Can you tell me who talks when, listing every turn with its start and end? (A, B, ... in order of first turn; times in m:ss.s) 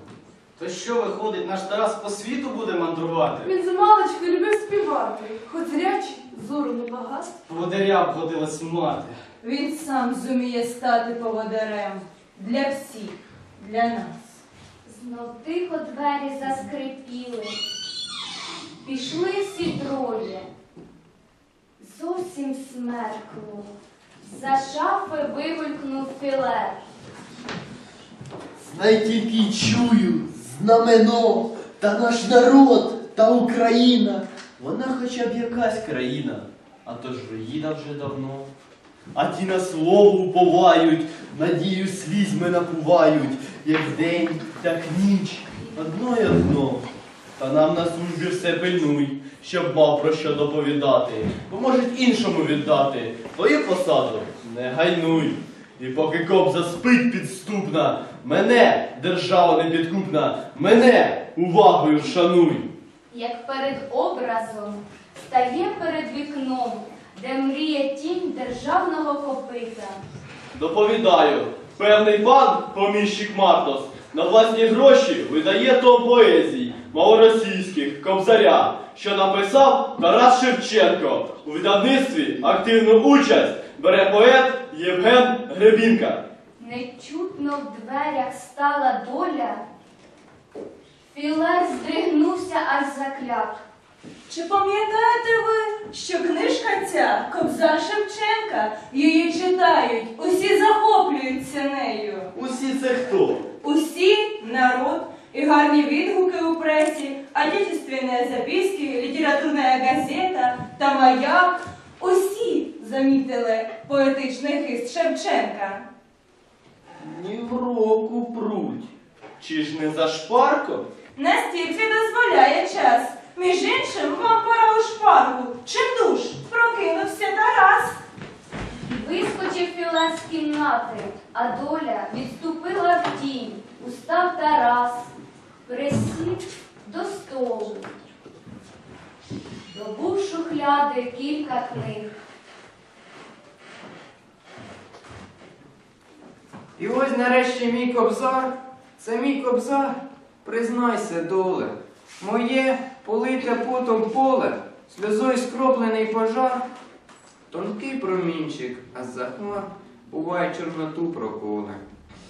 0:00.6-0:03.5 A
0:03.4-0:07.3 B
0:07.5-0:09.2 A
0:09.4-0:14.1 C
0:14.8-0:17.6 D
0:18.8-0:20.5 D
0:21.8-0:26.8 D
0:28.6-0:38.5 E
0:39.2-0:46.8 E
0:47.4-1:02.7 E
1:03.1-1:10.0 D
1:10.6-1:26.2 E
1:26.6-1:29.6 D
1:31.1-1:33.6 D
1:34.3-1:42.3 C
1:42.3-1:43.5 E
1:43.6-1:55.8 C
1:57.0-2:00.9 E
2:01.2-2:08.0 C
2:08.8-2:15.1 D
2:15.7-2:17.9 D
2:19.7-2:22.1 D
2:26.8-2:36.6 F
2:37.5-2:41.8 F